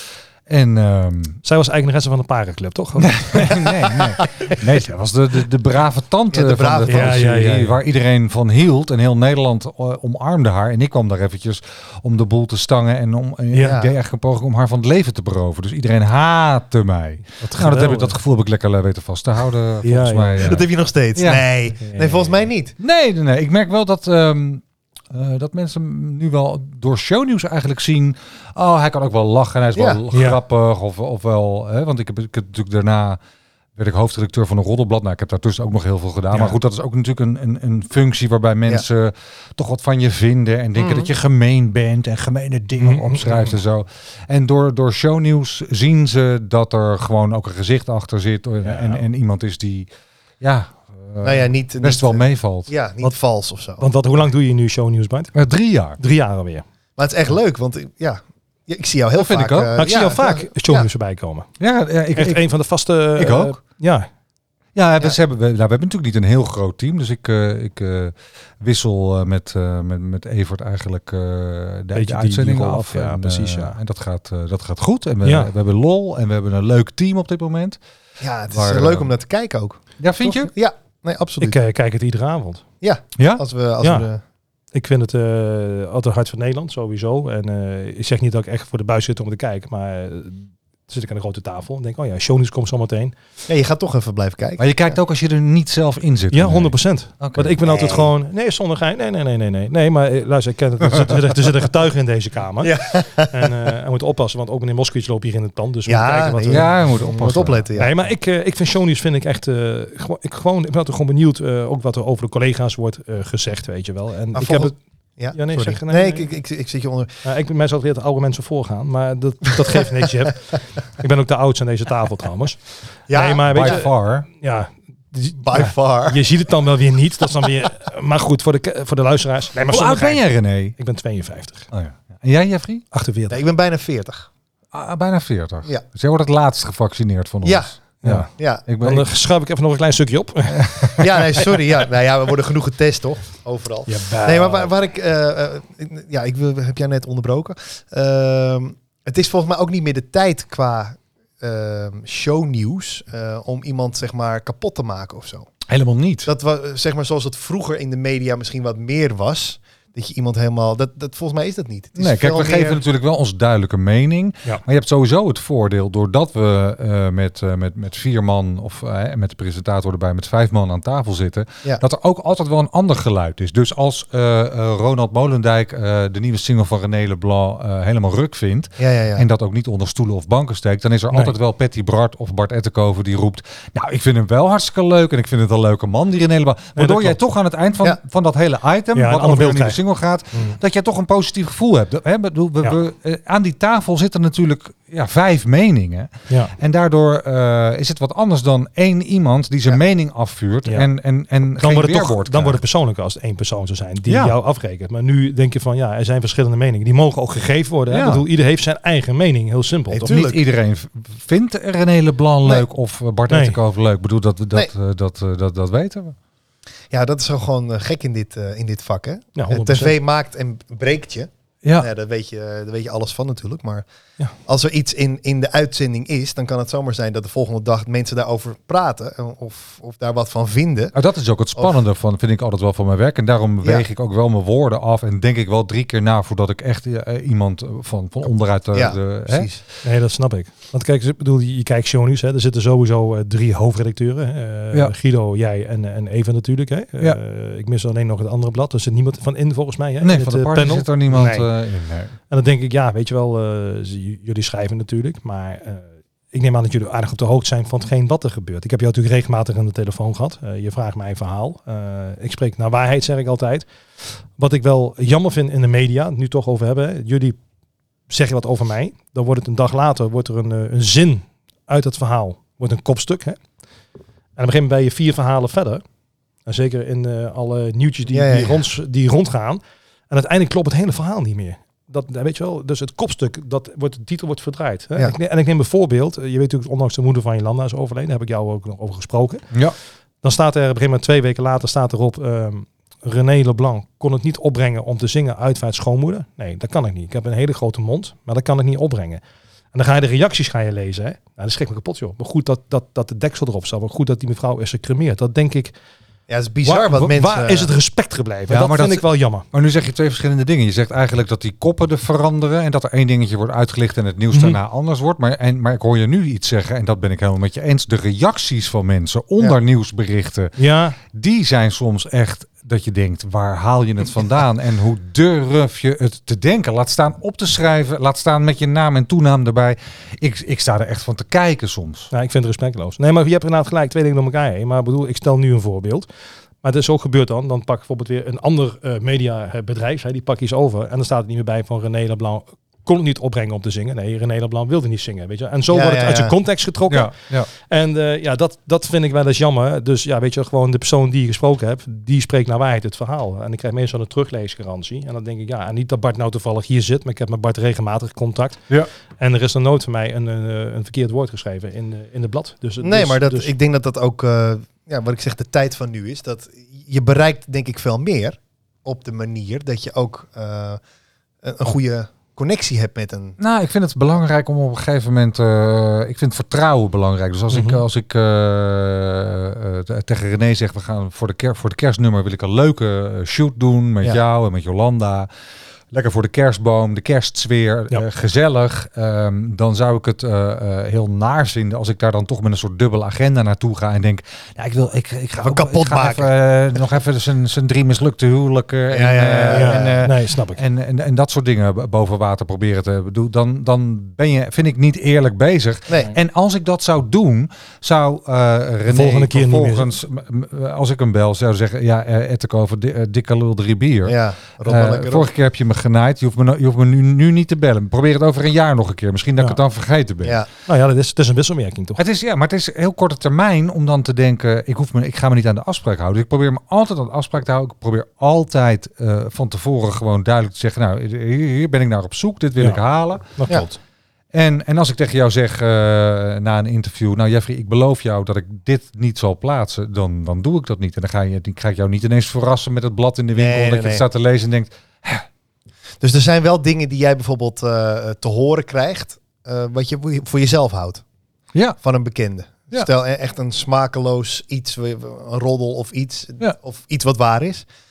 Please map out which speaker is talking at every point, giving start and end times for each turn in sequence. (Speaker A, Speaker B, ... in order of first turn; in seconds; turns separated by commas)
Speaker A: 0.5-1.4, Speaker B: 1.4-4.2, Speaker A: 3.0-21.4, Speaker C: 6.3-7.4, Speaker B: 6.9-7.8, Speaker B: 13.5-13.8, Speaker C: 13.6-13.9, Speaker B: 17.4-18.1, Speaker B: 19.8-20.6, Speaker C: 20.4-22.7, Speaker B: 21.8-22.2, Speaker A: 22.8-33.2, Speaker C: 29.7-30.0, Speaker B: 30.1-30.4, Speaker A: 33.8-49.9, Speaker B: 36.3-36.6, Speaker C: 40.8-41.1, Speaker B: 42.8-43.5, Speaker B: 48.6-49.0, Speaker A: 50.4-52.7, Speaker C: 51.2-53.8, Speaker B: 53.8-55.3, Speaker A: 55.3-56.0, Speaker B: 56.0-56.6, Speaker C: 57.0-60.9, Speaker A: 59.1-59.7, Speaker B: 59.8-61.5, Speaker A: 61.6-62.4, Speaker B: 62.1-64.1, Speaker A: 63.2-63.5, Speaker A: 64.7-77.8, Speaker B: 71.9-73.8, Speaker B: 75.2-75.5, Speaker C: 78.2-81.6, Speaker A: 78.5-79.1, Speaker A: 80.0-80.5, Speaker B: 81.4-82.6, Speaker C: 82.8-84.2, Speaker A: 83.2-83.4, Speaker B: 83.8-84.1, Speaker B: 84.7-93.1, Speaker C: 93.5-94.9, Speaker A: 94.6-97.5, Speaker B: 96.3-106.7, Speaker C: 97.6-98.1, Speaker C: 102.6-103.6, Speaker C: 105.9-107.9, Speaker A: 106.5-107.7, Speaker B: 107.8-114.8, Speaker C: 114.3-117.1, Speaker B: 115.3-116.3, Speaker B: 117.2-130.2, Speaker C: 123.1-123.8, Speaker A: 123.4-124.3, Speaker C: 125.4-126.2, Speaker A: 129.7-130.7, Speaker B: 130.8-131.7, Speaker A: 131.7-132.8, Speaker B: 132.9-133.4, Speaker C: 133.3-134.3, Speaker A: 134.7-139.1, Speaker C: 137.4-137.7, Speaker B: 138.0-141.2, Speaker C: 138.3-138.6, Speaker A: 140.5-140.9, Speaker C: 141.0-155.5, Speaker B: 143.9-144.7, Speaker A: 155.7-156.3, Speaker C: 156.2-162.8, Speaker A: 161.9-202.6, Speaker C: 178.8-179.2, Speaker B: 186.8-187.2, Speaker B: 188.9-189.8, Speaker B: 190.3-190.6, Speaker B: 196.3-196.5, Speaker B: 201.6-210.2, Speaker A: 204.1-204.4, Speaker C: 207.9-208.2, Speaker C: 209.9-210.4, Speaker A: 210.0-216.2, Speaker B: 213.3-213.6, Speaker C: 216.9-223.8, Speaker B: 219.3-219.9, Speaker C: 224.4-230.9, Speaker A: 230.9-239.5, Speaker C: 238.7-239.6, Speaker B: 239.8-251.5, Speaker A: 250.0-252.1, Speaker B: 252.3-263.7, Speaker B: 264.4-267.4, Speaker B: 268.1-273.4, Speaker B: 274.4-275.8, Speaker B: 276.4-289.4, Speaker C: 278.1-278.6, Speaker B: 290.2-299.2, Speaker B: 299.7-305.7, Speaker C: 306.3-307.7, Speaker B: 306.6-309.4, Speaker A: 308.5-332.1, Speaker B: 314.3-314.6, Speaker B: 320.6-321.0, Speaker B: 332.1-336.1, Speaker B: 336.6-363.5, Speaker C: 345.7-346.3, Speaker A: 346.9-347.5, Speaker C: 362.8-370.8, Speaker C: 371.4-373.4, Speaker A: 373.4-385.3, Speaker B: 377.5-377.8, Speaker A: 385.9-420.4, Speaker C: 395.4-396.3, Speaker C: 398.9-400.0, Speaker B: 399.5-400.6, Speaker B: 408.9-409.9, Speaker C: 414.1-415.3, Speaker B: 420.7-422.0, Speaker A: 421.9-433.3, Speaker B: 433.4-433.8, Speaker A: 434.3-445.2, Speaker C: 443.3-444.0, Speaker C: 446.0-451.0, Speaker C: 451.8-457.6